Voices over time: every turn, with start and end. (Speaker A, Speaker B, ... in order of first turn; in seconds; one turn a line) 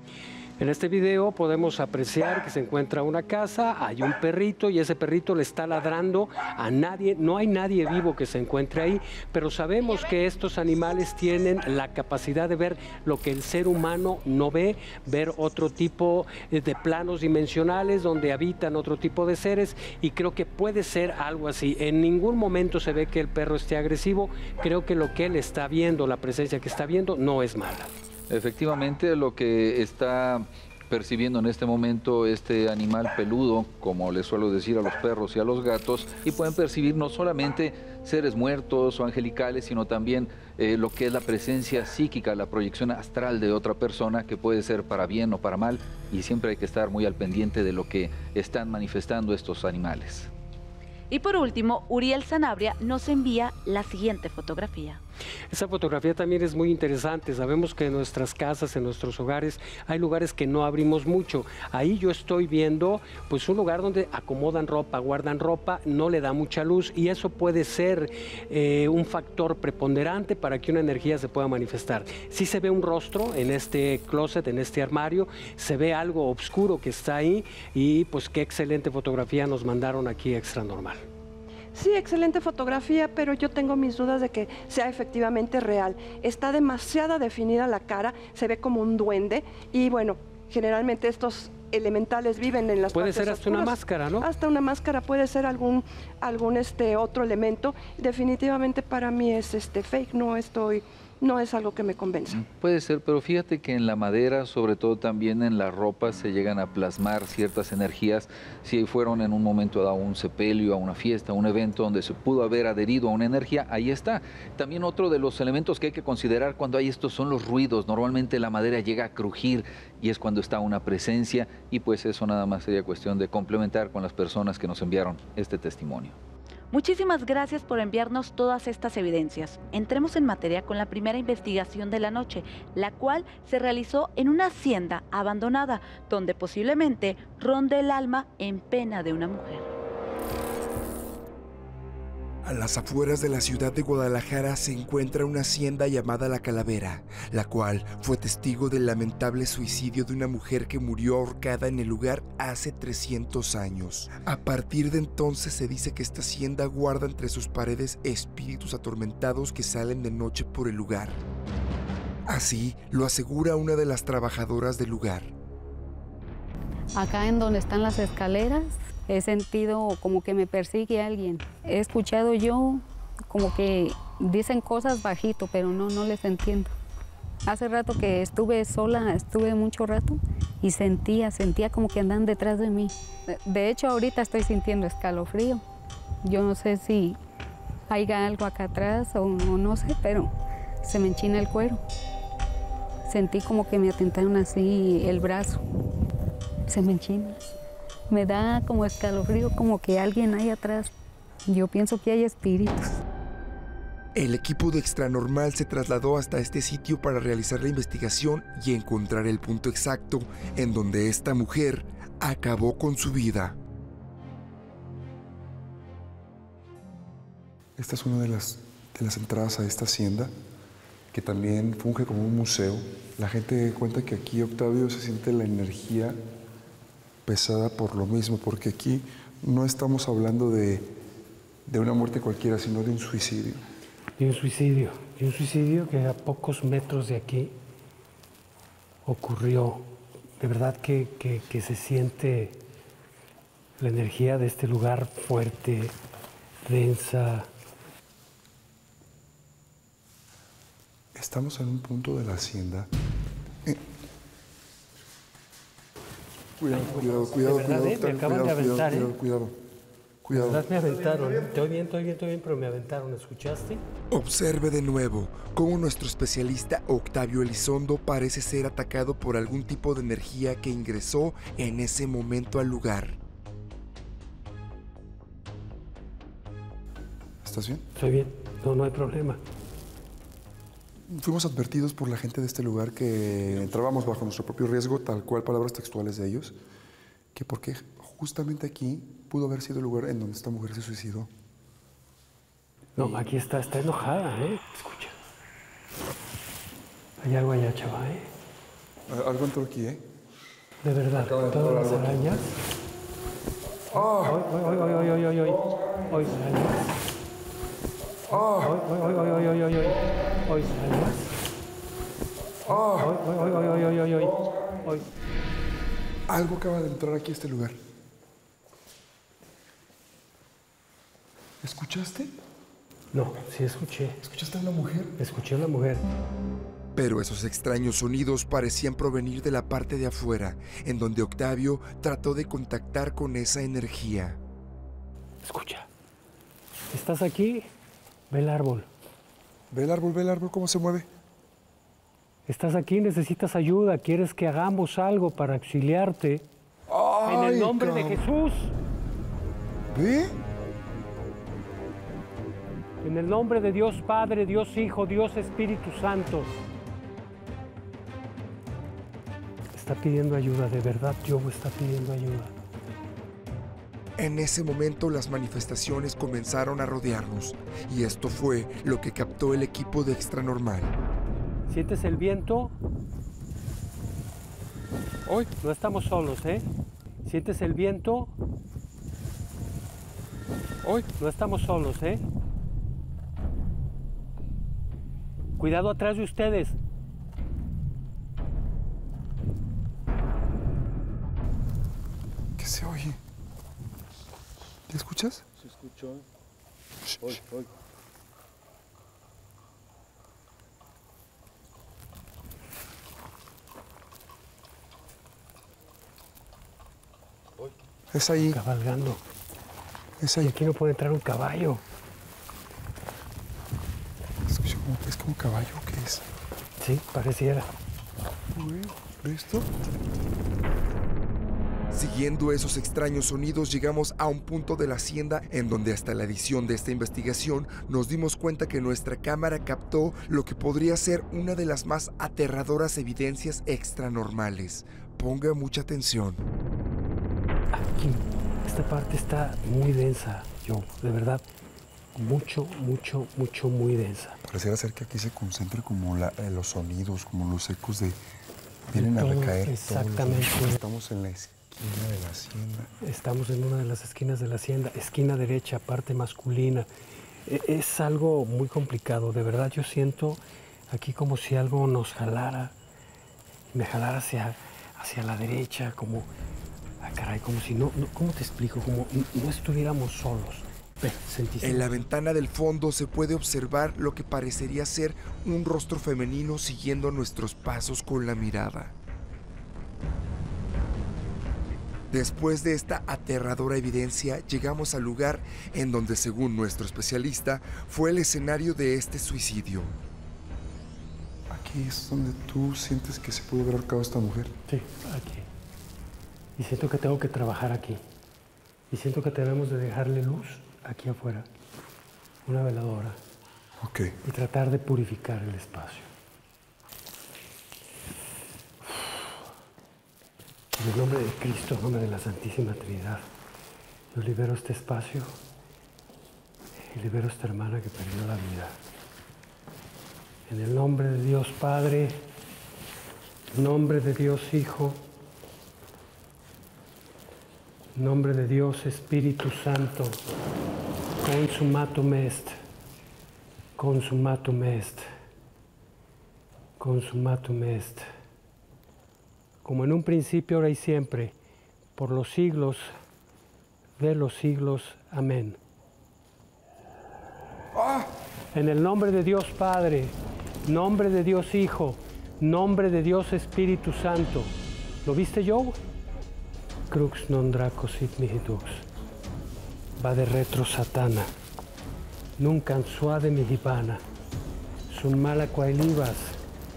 Speaker A: 0.6-27.9
Speaker B: 28.3-50.3
Speaker C: 51.1-55.0
Speaker A: 55.5-81.0
Speaker D: 81.7-102.4
Speaker A: 92.9-94.3
Speaker B: 102.3-126.2
Speaker C: 126.7-139.7
Speaker E: 142.4-161.2
Speaker E: 162.3-165.3
Speaker F: 166.9-176.7
Speaker F: 177.5-185.6
Speaker F: 186.2-187.2
Speaker F: 187.9-190.3
Speaker F: 190.8-191.8
Speaker F: 193.1-195.6
Speaker F: 196.7-197.4
Speaker F: 198.1-200.9
Speaker F: 201.5-202.9
Speaker E: 204.2-213.6
Speaker G: 217.8-220.3
Speaker G: 221.1-226.2
Speaker G: 227.3-230.9
Speaker G: 231.7-233.6
Speaker A: 234.2-237.6
Speaker A: 239.1-239.9
Speaker A: 240.4-242.6
Speaker A: 243.8-245.9
Speaker A: 246.7-247.5
Speaker G: 251.1-252.9
Speaker G: 256.6-259.5
Speaker A: 256.7-259.1
Speaker G: 260.2-260.7
Speaker A: 260.3-263.8
Speaker E: 264.1-273.2
Speaker G: 277.4-277.8
Speaker A: 278.0-279.4
Speaker G: 281.1-286.6
Speaker G: 287.4-291.3
Speaker A: 293.0-295.1
Speaker G: 293.0-293.3
Speaker A: 297.2-298.3
Speaker G: 299.1-300.0
Speaker A: 300.8-302.5
Speaker G: 301.1-302.4
Speaker G: 303.9-304.4
Speaker A: 304.0-306.8
Speaker G: 308.3-308.8
Speaker A: 308.3-311.2
Speaker G: 312.7-313.2
Speaker A: 312.7-315.1
Speaker G: 316.3-317.8
Speaker G: 321.6-322.3
Speaker A: 323.1-324.2
Speaker G: 324.2-325.1
Speaker A: 325.2-326.0
Speaker E: 326.9-334.4
Speaker A: 335.4-335.9
Speaker A: 336.9-337.7
Speaker A: 338.3-338.9
Speaker G: 339.7-341.1
Speaker A: 342.5-346.4
Speaker G: 346.9-348.2
Speaker A: 347.2-348.7
Speaker G: 349.9-350.3
Speaker A: 353.0-356.5
Speaker A: 359.7-362.5
Speaker E: 364.2-370.9
Speaker A: 371.7-372.7
Speaker A: 375.6-376.7
Speaker A: 377.3-378.3
Speaker A: 381.2-382.2
Speaker A: 385.6-386.8
Speaker G: 392.6-393.2
Speaker G: 394.9-395.4
Speaker G: 408.1-408.6
Speaker A: 408.5-409.2
Speaker G: 410.2-410.6
Speaker A: 410.4-411.8
Speaker G: 414.4-416.2
Speaker A: 416.8-417.7
Speaker G: 418.6-419.7
Speaker E: 421.9-436.4
Speaker A: 437.7-441.4
Speaker A: 442.2-444.4
Speaker G: 444.4-448.2
Speaker G: 448.9-452.9
Speaker A: 448.9-450.8
Speaker A: 453.0-456.9
Speaker A: 457.5-462.8
Speaker A: 463.7-466.3
Speaker A: 467.0-472.1
Speaker E: 471.6-478.9
Speaker E: 482.1-489.9
Speaker G: 491.5-494.5
Speaker A: 494.7-495.5
Speaker A: 496.6-498.0
Speaker A: 498.9-501.5
Speaker A: 502.5-503.2
Speaker G: 503.8-504.1
Speaker A: 504.2-506.1
Speaker A: 510.8-513.2
Speaker A: 514.1-515.4
Speaker A: 516.9-518.7
Speaker A: 520.5-522.2
Speaker A: 523.5-525.0
Speaker A: 528.0-530.2
Speaker A: 531.2-532.6
Speaker A: 533.8-535.1
Speaker A: 536.8-538.1
Speaker A: 539.6-541.4
Speaker A: 542.0-542.9
Speaker A: 544.0-545.6
Speaker A: 548.5-550.1
Speaker A: 550.7-554.5
Speaker A: 555.0-555.8
Speaker A: 556.9-558.9
Speaker A: 560.0-561.3
Speaker A: 562.4-564.0
Speaker A: 564.9-566.4